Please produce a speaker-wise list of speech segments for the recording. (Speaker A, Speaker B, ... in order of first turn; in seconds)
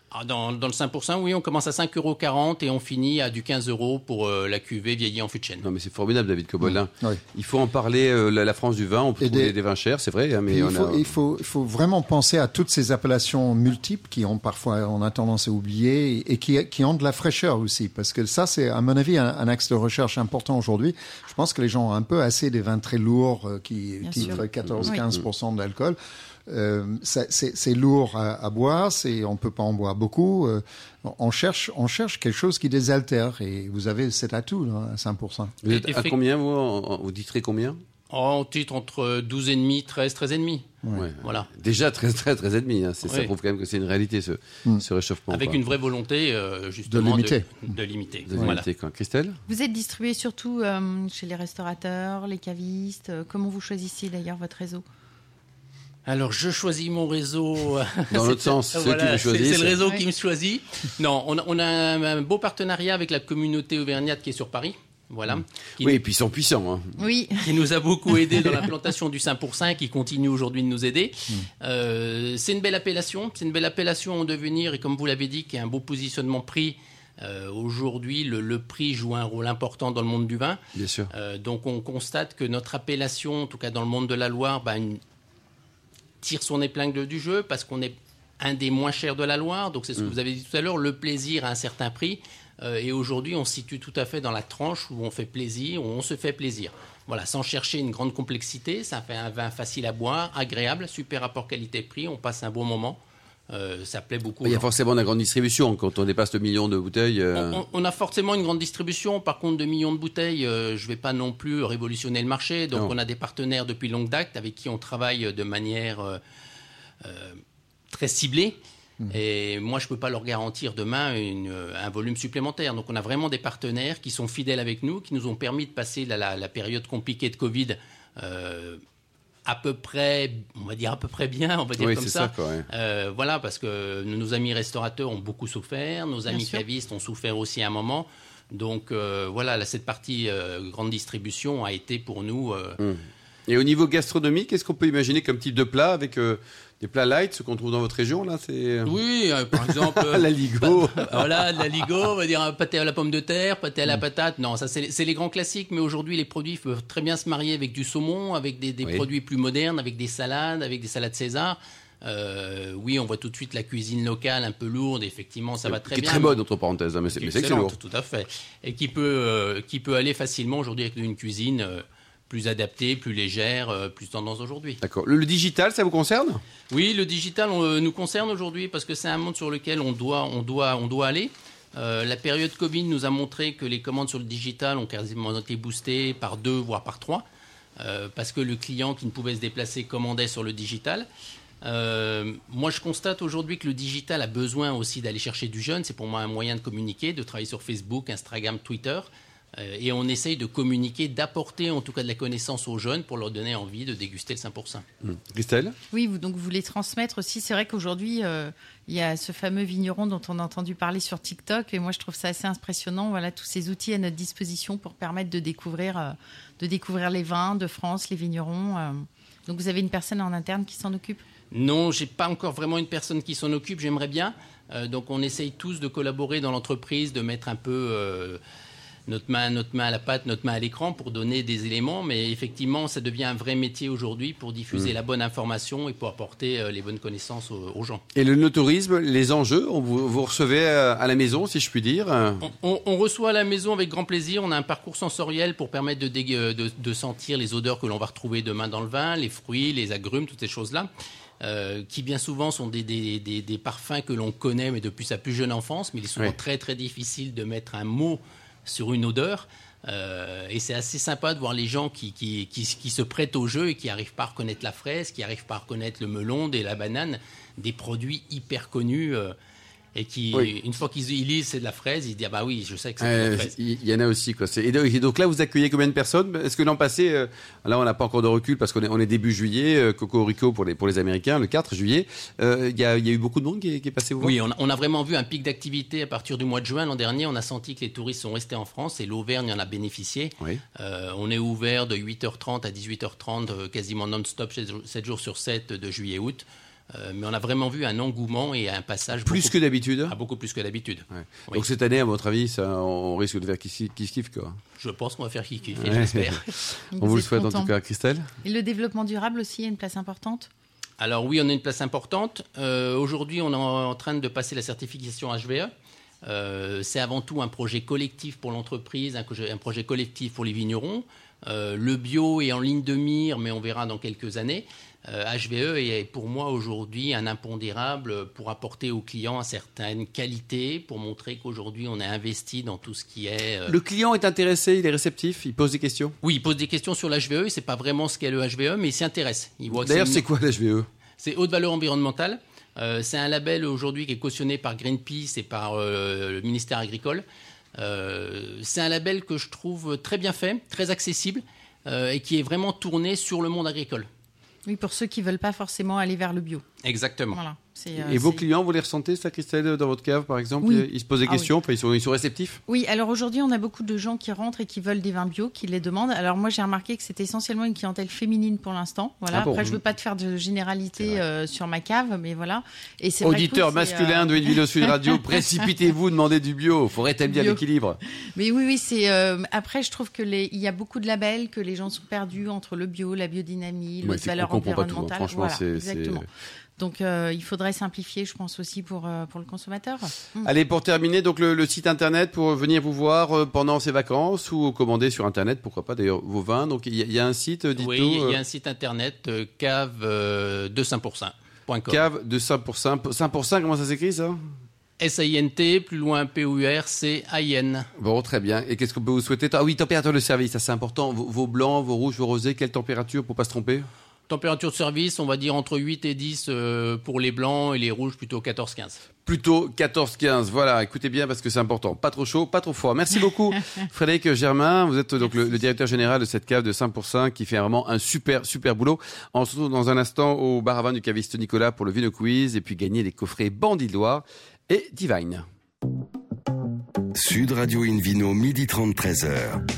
Speaker A: 0.1-5.7, 35.7-36.2, 38.1-40.7, 41.2-41.5, 43.0-43.3, 45.3-48.6, 56.1-66.0, 67.4-85.0, 86.2-104.7, 107.3-116.2, 117.0-128.8, 129.4-142.8, 148.8-166.4, 167.1-174.8, 176.7-187.2, 187.8-191.1, 191.6-204.8, 221.5-228.4, 229.1-238.0, 242.4-269.4, 269.9-273.6, 284.2-301.7, 304.8-306.5, 311.0-315.7, 316.2-333.8, 336.2-340.2, 341.2-354.1, 356.8-357.4, 397.8-402.0, 405.0-407.9, 414.3-419.0
Speaker B: 5.6-11.1, 35.6-37.8, 41.0-45.6, 48.3-49.4, 58.1-59.8, 65.8-67.0, 80.8-81.1, 104.4-107.6, 131.8-132.7, 142.8-148.9, 149.6-151.5, 165.7-167.8, 174.8-176.4, 205.0-205.8, 238.2-242.4, 273.0-284.4, 299.2-300.1, 301.2-304.6, 305.8-308.3, 333.7-336.2, 339.7-340.9, 358.0-362.6, 369.3-369.8, 373.2-378.0, 384.0-386.2, 390.4-398.4, 401.9-404.4, 408.0-413.9, 419.2-435.4
Speaker C: 6.6-7.2, 9.2-9.6, 10.5-35.5, 46.9-47.6
Speaker D: 24.0-25.0, 49.5-54.8, 67.0-67.5, 136.3-136.6, 205.9-221.2, 306.9-307.7, 308.4-310.5, 354.7-356.6, 357.3-358.4, 360.6-361.5, 362.7-374.9, 377.3-377.6, 378.4-386.3, 386.8-390.5
Speaker E: 437.1-439.6